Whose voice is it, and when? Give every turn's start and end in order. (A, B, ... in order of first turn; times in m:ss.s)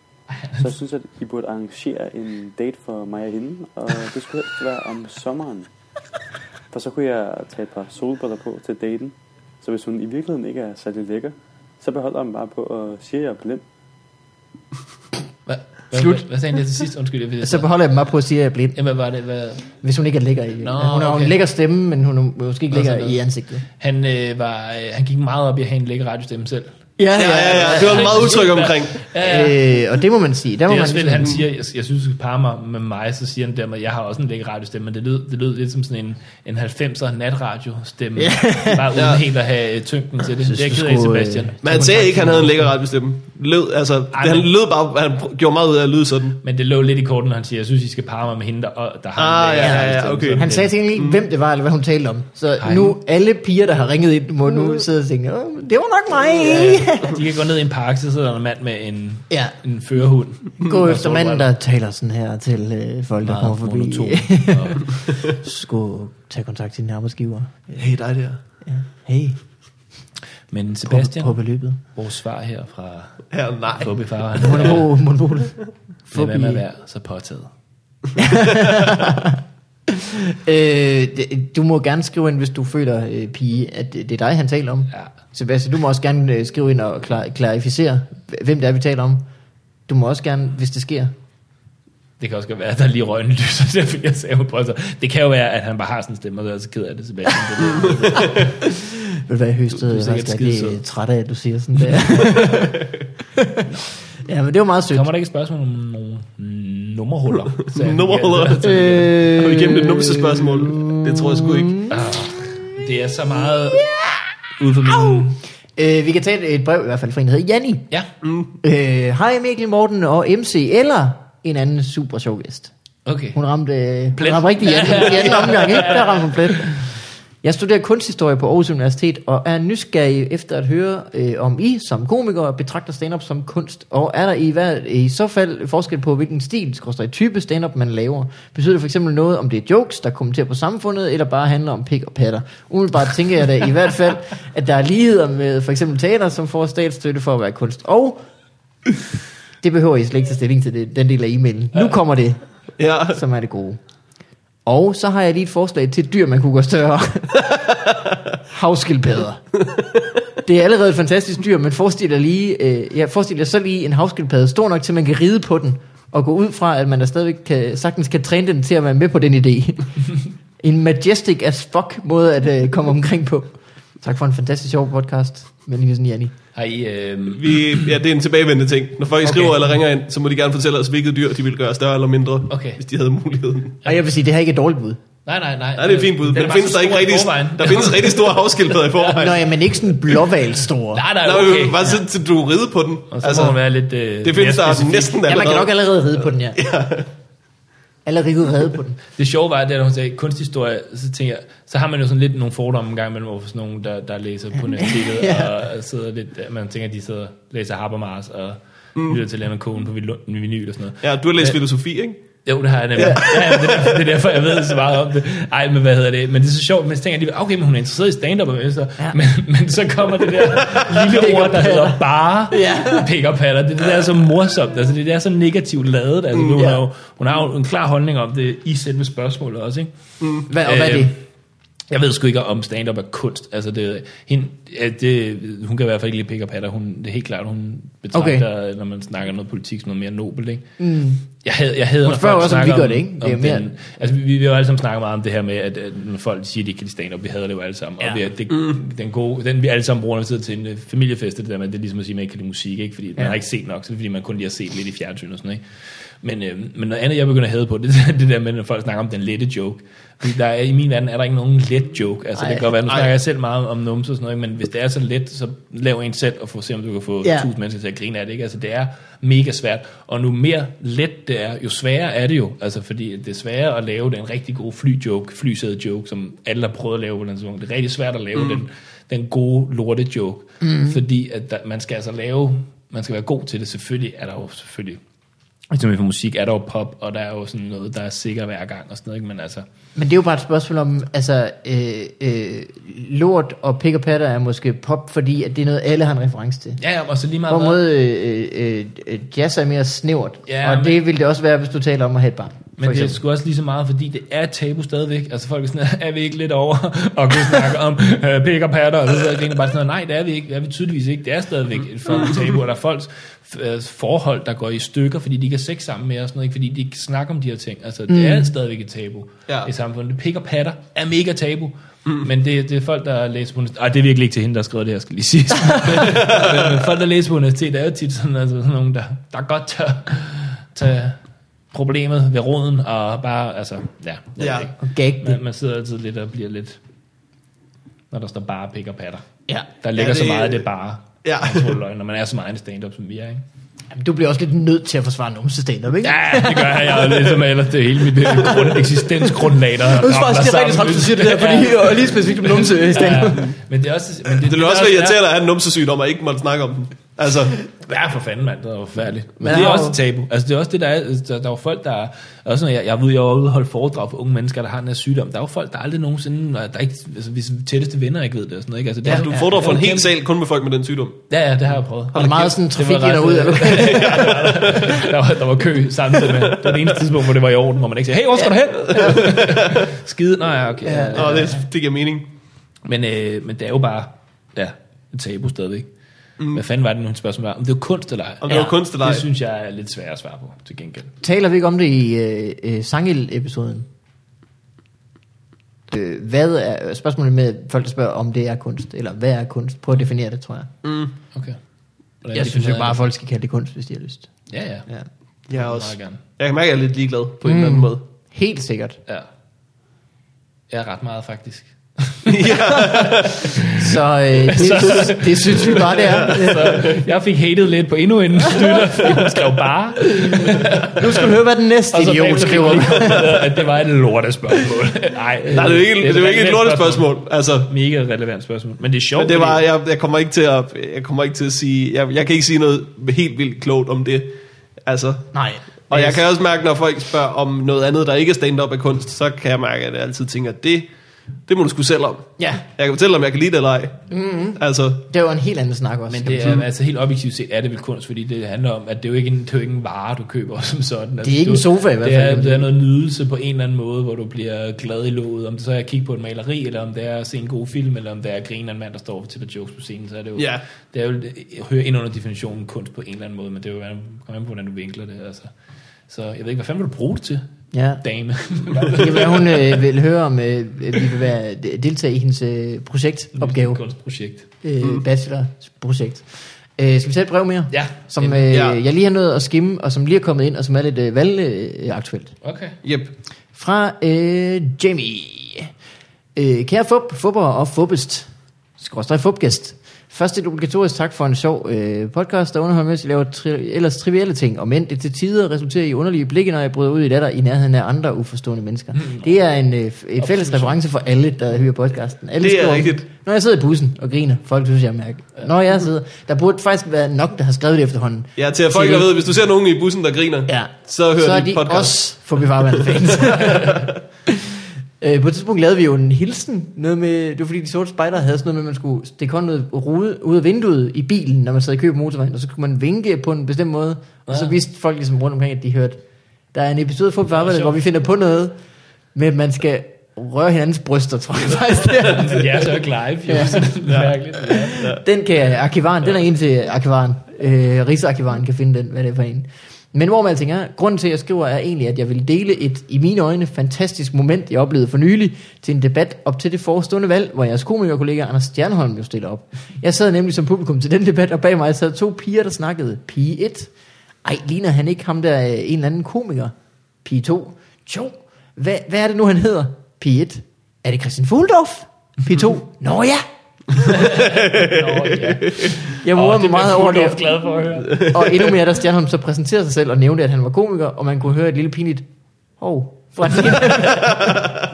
0:00.4-0:00.7 A
0:00.5-0:05.7 B
0:06.7-0:13.6 B
0:15.5-0:17.7 A
0:15.9-0:16.2 C
0:17.4-0:18.8 C
0:18.8-0:19.7 A
0:19.8-0:23.6 C
0:20.6-0:21.4 A
0:22.7-0:26.8 A
0:27.0-0:28.5 C
0:27.2-0:29.0 D
0:27.7-0:29.6 A
0:29.2-0:31.4 C
0:30.7-0:41.8 A
0:38.2-0:38.9 C
0:38.9-0:39.2 D
0:40.4-0:42.7 C
0:41.6-0:46.4 D
0:44.1-0:44.5 A
0:46.4-0:50.7 A
0:49.2-0:51.3 D
0:49.6-0:49.9 C
0:50.4-0:57.2 C
0:52.6-0:53.0 A
0:56.2-1:01.5 A
0:59.3-0:59.6 C
1:00.6-1:07.9 C
1:03.2-1:04.9 A
1:07.8-1:08.4 D
1:08.6-1:09.4 C
1:10.5-1:13.3 A
1:10.9-1:11.8 C
1:13.3-1:14.0 D
1:13.8-1:14.9 A
1:14.4-1:16.6 C
1:16.1-1:17.5 A
1:18.2-1:29.2 C
1:29.9-1:31.1 C
1:32.2-1:38.6 A
1:38.3-1:43.6 C
1:39.7-1:40.8 A
1:41.8-1:42.4 A
1:43.7-1:43.9 A
1:44.2-1:45.0 C
1:44.9-1:49.1 A
1:47.6-1:51.7 D
1:48.6-1:52.0 C
1:51.9-1:53.9 A
1:53.8-1:54.1 C
1:54.6-1:55.4 A
1:54.9-1:55.2 C
1:55.8-1:57.9 C
1:58.2-1:58.6 D
1:58.6-2:02.7 C
2:03.1-2:03.4 A
2:03.3-2:06.9 C
2:04.2-2:06.7 A
2:07.4-2:28.2 C
2:29.6-2:32.4 C
2:32.8-2:33.2 D
2:33.1-2:33.8 C
2:34.7-2:37.7 C
2:38.5-2:39.5 C
2:40.4-2:56.3 C
2:56.6-2:57.8 A
2:57.3-3:03.8 D
2:59.3-2:59.5 A
3:02.5-3:02.8 A
3:03.8-3:05.0 C
3:05.3-3:09.3 A
3:05.8-3:09.5 D
3:09.1-3:11.0 C
3:10.9-3:12.0 A
3:11.2-3:13.6 D
3:13.1-3:15.4 A
3:14.2-3:17.1 D
3:15.3-3:16.6 C
3:18.0-3:19.0 C
3:19.2-3:31.6 A
3:24.6-3:25.5 C
3:29.0-3:29.2 D
3:31.0-3:32.2 D
3:32.4-3:49.9 A
3:33.0-3:33.6 D
3:33.0-3:33.7 C
3:40.7-3:43.1 C
3:46.5-3:46.7 D
3:50.5-3:51.2 C
3:50.6-3:51.2 A
3:51.9-4:00.7 A
3:58.1-3:58.5 C
4:00.8-4:01.2 C
4:01.3-4:15.6 A
4:02.0-4:03.7 C
4:08.5-4:08.8 D
4:16.2-4:45.0 A
4:22.4-4:22.7 C
4:27.2-4:27.5 C
4:40.6-4:41.0 C
4:45.7-4:49.6 A
4:50.0-4:56.8 C
4:56.8-4:57.8 A
4:57.5-5:03.2 C
5:00.5-5:01.0 A
5:02.8-5:31.2 A
5:18.1-5:18.5 C
5:25.9-5:26.8 D
5:31.7-5:36.8 A
5:34.4-5:34.7 D
5:34.8-5:35.4 C
5:38.1-5:39.2 A
5:39.8-5:43.4 A
5:39.9-5:40.7 D
5:41.2-5:41.8 D
5:43.9-5:47.3 C
5:46.0-5:55.2 A
5:48.2-5:49.3 C
5:49.9-5:53.5 C
5:54.4-5:57.6 D
5:57.8-6:10.1 A
5:59.4-6:00.0 C
6:09.0-6:09.5 C
6:09.1-6:11.2 D
6:11.3-6:21.6 A
6:12.1-6:12.5 D
6:12.1-6:15.0 C
6:13.9-6:14.8 D
6:19.0-6:19.8 D
6:20.8-6:21.5 C
6:21.1-6:22.3 D
6:22.8-6:25.9 A
6:26.5-6:31.1 A
6:28.4-6:29.3 D
6:31.2-6:33.9 C
6:35.9-6:40.7 C
6:40.8-6:41.1 D
6:41.3-6:41.6 A
6:42.2-6:43.0 A
6:42.3-6:44.3 C
6:44.5-6:44.9 A
6:45.5-6:48.0 D
6:45.5-6:46.2 A
6:47.4-6:49.0 C
6:50.7-7:01.3 A
6:52.3-6:53.5 D
6:53.7-6:56.9 C
6:55.7-6:57.0 D
6:58.5-6:59.0 C
7:00.1-7:03.4 C
7:01.9-7:07.1 A
7:02.7-7:03.5 D
7:05.5-7:07.7 D
7:07.6-7:09.7 A
7:09.2-7:14.3 D
7:14.8-7:15.3 D
7:15.3-7:16.2 C
7:15.9-7:20.9 D
7:21.5-7:24.0 D
7:22.4-7:22.6 C
7:24.1-7:26.6 C
7:24.6-7:25.0 D
7:26.1-7:45.5 A
7:31.2-7:32.7 C
7:40.4-7:40.6 D
7:46.1-7:47.5 A
7:47.7-7:48.0 C
7:48.0-7:49.8 A
7:48.9-7:53.8 C
7:53.4-7:54.5 A
7:54.6-7:56.2 C
7:56.8-8:02.3 C
7:57.7-7:58.5 A
7:58.5-7:58.8 D
8:02.4-8:02.8 A
8:02.8-8:03.1 D
8:03.6-8:05.7 C
8:06.4-8:29.2 C
8:19.0-8:19.3 A
8:20.2-8:20.8 A
8:22.4-8:23.0 D
8:28.4-8:32.0 D
8:30.5-8:46.0 C
8:32.5-8:33.4 D
8:44.3-8:44.6 A
8:46.5-8:48.6 C
8:47.3-8:47.8 A
8:49.2-8:52.6 C
8:52.0-8:54.8 A
8:53.3-8:53.7 C
8:53.8-8:54.1 D
8:54.5-9:13.7 C
8:54.7-8:55.0 D
9:14.2-9:16.5 C
9:17.0-9:23.2 C
9:23.8-9:28.2 A
9:23.8-9:25.8 D
9:26.0-9:27.2 C
9:28.0-9:32.0 C
9:32.6-9:34.4 C